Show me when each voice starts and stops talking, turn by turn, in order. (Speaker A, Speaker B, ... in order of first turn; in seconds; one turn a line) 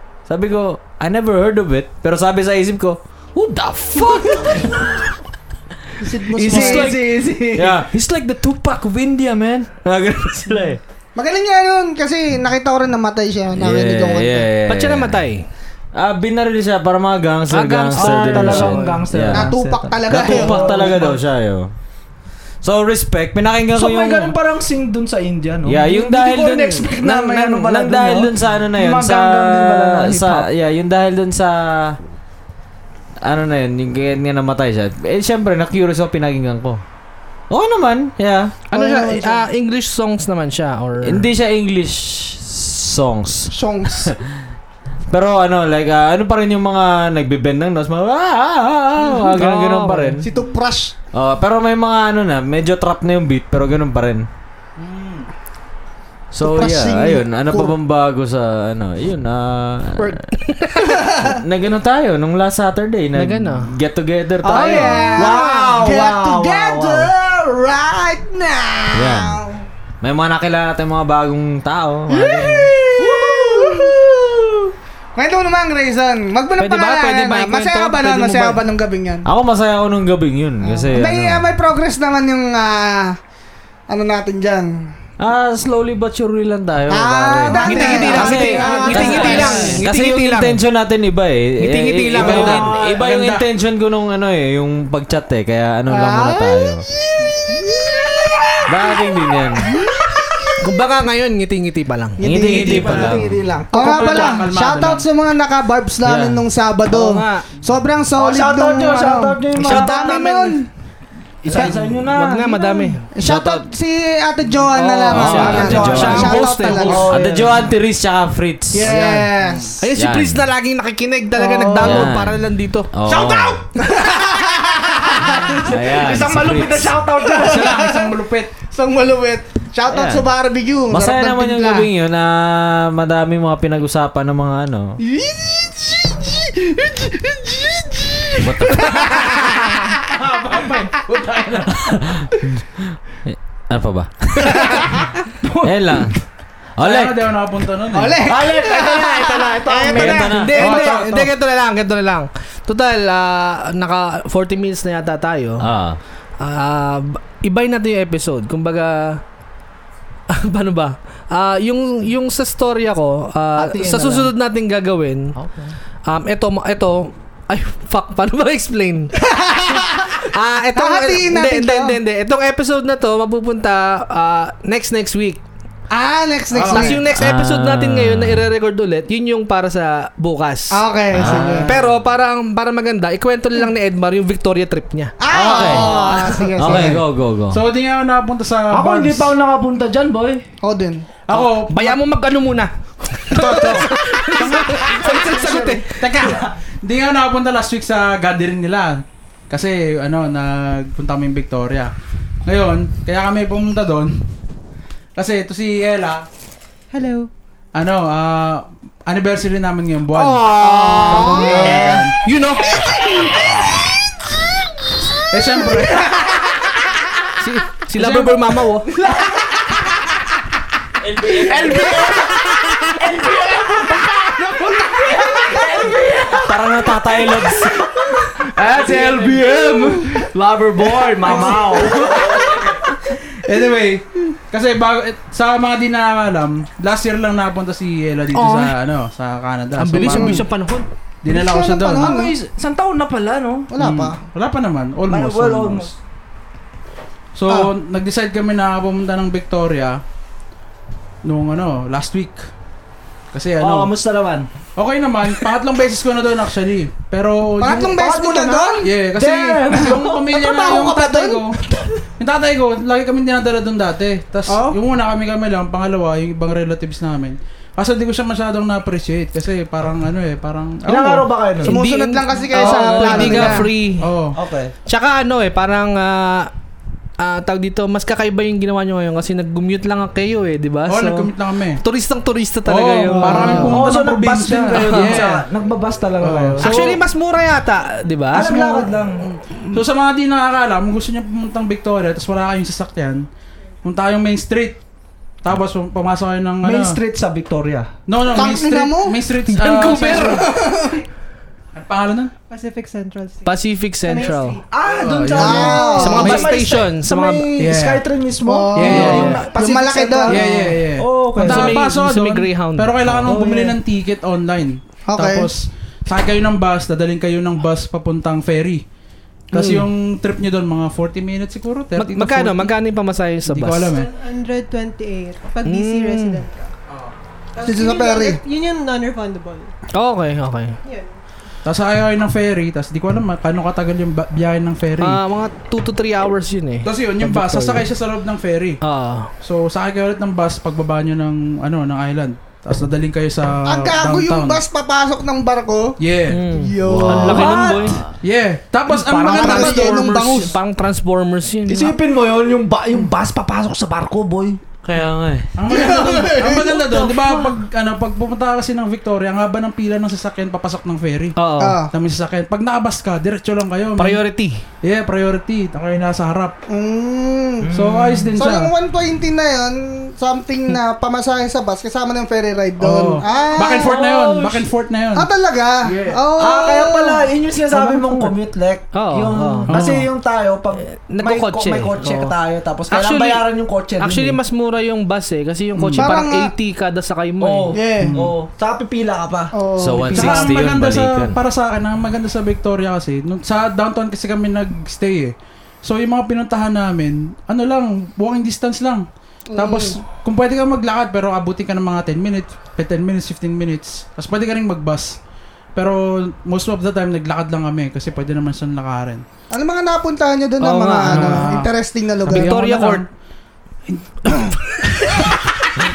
Speaker A: 0.3-5.0
Speaker B: 4.3-4.6
Speaker C: 6.0-6.9
Speaker B: 6.3-7.8
Speaker A: 6.5-10.8
Speaker C: 11.2-14.5
Speaker A: 13.6-15.2
Speaker D: 14.7-15.4
Speaker A: 15.9-19.5
Speaker D: 17.5-19.0
Speaker B: 17.9-21.2
Speaker C: 19.3-21.0
Speaker A: 20.1-21.7
Speaker A: 22.6-24.3
Speaker B: 23.7-30.5
Speaker A: 25.6-32.0
Speaker A: 33.2-36.8
Speaker A: 37.5-38.5
Speaker D: 38.7-41.3
Speaker C: 38.7-39.5
Speaker A: 41.0-44.3
Speaker C: 43.5-44.1
Speaker A: 45.1-50.3
Speaker D: 49.0-50.2
Speaker C: 50.2-50.9
Speaker A: 51.1-54.3
Speaker E: 54.8-55.2
Speaker A: 56.3-60.3
Speaker C: 56.4-57.7
Speaker D: 60.3-61.0
Speaker C: 60.9-61.3
Speaker A: 61.1-65.4
Speaker D: 63.1-63.7
Speaker C: 64.4-69.6
Speaker B: 64.5-67.1
Speaker A: 68.9-69.4
Speaker A: 70.0-72.7
Speaker C: 72.1-74.6
Speaker B: 73.0-74.0
Speaker C: 75.1-79.2
Speaker D: 76.6-78.6
Speaker A: 79.2-81.5
Speaker C: 80.6-83.2
Speaker C: 83.9-84.9
Speaker A: 85.2-96.8
Speaker C: 86.9-89.8
Speaker D: 87.5-90.6
Speaker B: 88.0-89.5
Speaker D: 91.6-92.7
Speaker B: 92.1-93.0
Speaker E: 92.1-93.4
Speaker C: 95.9-99.0
Speaker A: 98.7-99.7
Speaker C: 99.6-100.6
Speaker D: 100.6-102.2
Speaker A: 102.2-103.3
Speaker C: 102.2-102.7
Speaker B: 102.2-104.4
Speaker E: 102.4-103.2
Speaker C: 103.7-110.7
Speaker E: 103.7-105.0
Speaker A: 106.0-106.4
Speaker D: 106.9-107.5
Speaker B: 108.1-110.3
Speaker D: 109.6-110.6
Speaker B: 111.4-112.8
Speaker D: 111.5-113.1
Speaker C: 111.5-111.8
Speaker C: 113.1-117.1
Speaker A: 113.2-113.7
Speaker D: 114.7-117.0
Speaker A: 115.1-118.9
Speaker B: 115.2-117.7
Speaker C: 118.7-119.8
Speaker D: 118.9-119.2
Speaker E: 119.4-119.7
Speaker D: 119.8-122.9
Speaker A: 120.0-120.4
Speaker C: 121.3-122.1
Speaker A: 121.8-122.4
Speaker A: 122.9-123.6
Speaker B: 123.1-123.5
Speaker C: 123.8-125.7
Speaker B: 125.0-127.8
Speaker A: 125.6-127.0
Speaker C: 127.2-128.1
Speaker E: 127.4-128.5
Speaker C: 128.7-131.9
Speaker A: 129.9-130.3
Speaker A: 130.9-135.0
Speaker C: 135.0-140.1
Speaker A: 138.4-139.3
Speaker B: 140.2-141.7
Speaker A: 141.7-145.0
Speaker B: 145.4-145.7
Speaker A: 145.6-146.2
Speaker A: 146.8-147.2
Speaker E: 146.8-148.2
Speaker C: 147.9-150.8
Speaker B: 148.2-150.8
Speaker A: 149.9-150.6
Speaker D: 150.3-155.7
Speaker E: 150.5-151.3
Speaker A: 155.6-156.0
Speaker D: 156.4-159.2
Speaker D: 160.3-165.3
Speaker B: 163.6-164.3
Speaker B: 165.3-165.7
Speaker D: 166.1-169.1
Speaker C: 169.2-172.0
Speaker D: 170.1-175.4
Speaker C: 175.9-177.0
Speaker E: 176.5-177.0
Speaker D: 176.6-180.8
Speaker A: 177.1-178.4
Speaker C: 180.7-181.7
Speaker A: 181.1-181.7
Speaker E: 181.3-181.6
Speaker D: 181.6-185.1
Speaker C: 185.2-187.0
Speaker A: 185.3-187.6
Speaker B: 185.7-186.2
Speaker E: 187.5-189.3
Speaker B: 188.7-190.4
Speaker C: 190.6-191.1
Speaker E: 191.3-192.0
Speaker D: 191.3-196.0
Speaker C: 193.4-193.9
Speaker E: 193.4-193.8
Speaker E: 194.3-195.0
Speaker B: 195.0-195.8
Speaker E: 195.8-201.9
Speaker E: 202.4-204.2
Speaker E: 205.2-206.2
Speaker F: 206.9-207.3
Speaker E: 207.7-212.2
Speaker D: 210.1-212.8
Speaker C: 210.7-212.0
Speaker E: 215.3-216.2
Speaker D: 217.4-218.9
Speaker E: 217.9-218.5
Speaker B: 218.9-219.6
Speaker A: 221.0-222.2
Speaker B: 221.2-232.7
Speaker A: 226.3-227.9
Speaker C: 231.4-232.0
Speaker E: 233.3-240.4
Speaker D: 238.3-238.7
Speaker D: 239.8-240.9
Speaker C: 240.0-240.4
Speaker E: 241.2-242.2
Speaker C: 241.3-242.3
Speaker B: 241.9-243.7
Speaker C: 243.7-244.2
Speaker E: 243.8-245.9
Speaker B: 245.1-245.9
Speaker E: 247.3-250.0
Speaker E: 251.2-252.4
Speaker E: 253.3-253.9
Speaker B: 253.6-254.5
Speaker E: 254.8-257.9
Speaker C: 257.6-258.9
Speaker B: 257.7-260.4
Speaker E: 258.8-261.6
Speaker C: 260.3-261.4
Speaker E: 262.2-271.3
Speaker C: 264.5-264.8
Speaker B: 270.8-271.8
Speaker C: 271.6-273.7
Speaker D: 271.6-274.1
Speaker E: 272.6-274.4
Speaker B: 273.1-273.4
Speaker B: 274.4-274.7
Speaker D: 274.9-276.5
Speaker D: 277.2-283.8
Speaker E: 280.9-281.8
Speaker E: 282.6-285.4
Speaker C: 283.2-283.8
Speaker B: 283.6-286.9
Speaker D: 284.8-285.3
Speaker E: 286.2-287.0
Speaker D: 286.6-288.9
Speaker B: 288.3-289.3
Speaker E: 288.4-288.9
Speaker E: 289.7-293.3
Speaker E: 293.8-294.8
Speaker E: 295.4-297.0
Speaker B: 296.6-297.9
Speaker E: 298.1-300.5
Speaker C: 298.3-299.2
Speaker D: 299.5-300.5
Speaker C: 300.2-301.0
Speaker E: 301.7-302.3
Speaker F: 302.5-305.2
Speaker D: 303.4-304.6
Speaker B: 304.7-311.8
Speaker E: 305.0-306.5
Speaker C: 305.3-306.4
Speaker D: 305.9-307.6
Speaker E: 307.6-308.1
Speaker C: 308.4-310.4
Speaker E: 308.7-309.4
Speaker D: 308.9-309.5
Speaker E: 310.3-318.8
Speaker D: 311.4-313.3
Speaker B: 313.2-313.8
Speaker C: 315.1-315.5
Speaker E: 319.5-322.7
Speaker D: 319.5-319.8
Speaker D: 321.9-323.9
Speaker E: 323.5-324.1
Speaker F: 323.9-326.7
Speaker D: 325.6-326.4
Speaker F: 327.5-329.7
Speaker C: 327.6-328.4
Speaker D: 329.9-330.8
Speaker F: 330.8-331.1
Speaker E: 331.6-335.2
Speaker D: 335.0-337.9
Speaker E: 336.8-338.8
Speaker D: 338.8-339.3
Speaker E: 339.4-344.6
Speaker C: 343.7-346.0
Speaker E: 346.0-346.5
Speaker D: 346.3-348.0
Speaker C: 346.5-347.6
Speaker A: 346.8-347.5
Speaker B: 347.2-348.0
Speaker E: 348.2-350.1
Speaker D: 349.1-351.9
Speaker C: 349.2-350.6
Speaker B: 351.7-354.6
Speaker A: 354.8-355.5
Speaker E: 355.6-361.4
Speaker C: 355.7-357.0
Speaker D: 361.4-361.8
Speaker C: 361.6-361.9
Speaker E: 361.9-364.2
Speaker D: 364.0-364.6
Speaker E: 364.8-366.5
Speaker C: 366.7-367.7
Speaker B: 367.6-368.3
Speaker E: 367.7-368.7
Speaker C: 368.3-374.0
Speaker E: 372.8-375.3
Speaker F: 373.2-373.6
Speaker B: 373.6-374.7
Speaker C: 375.1-377.2
Speaker B: 375.8-384.4
Speaker C: 377.8-378.1
Speaker D: 378.9-379.7
Speaker E: 379.7-380.1
Speaker D: 380.9-382.3
Speaker D: 382.9-383.4
Speaker D: 384.0-387.7
Speaker E: 385.8-386.1
Speaker C: 386.0-386.5
Speaker B: 387.4-389.5
Speaker C: 387.7-388.1
Speaker E: 388.0-388.3
Speaker C: 389.5-390.5
Speaker A: 389.8-391.4
Speaker E: 390.1-399.0
Speaker C: 399.5-400.0
Speaker E: 399.6-405.2
Speaker E: 405.8-409.2
Speaker C: 409.5-412.6
Speaker D: 410.6-411.5
Speaker E: 411.0-411.7
Speaker E: 412.2-413.1
Speaker D: 412.3-413.0
Speaker E: 413.9-415.1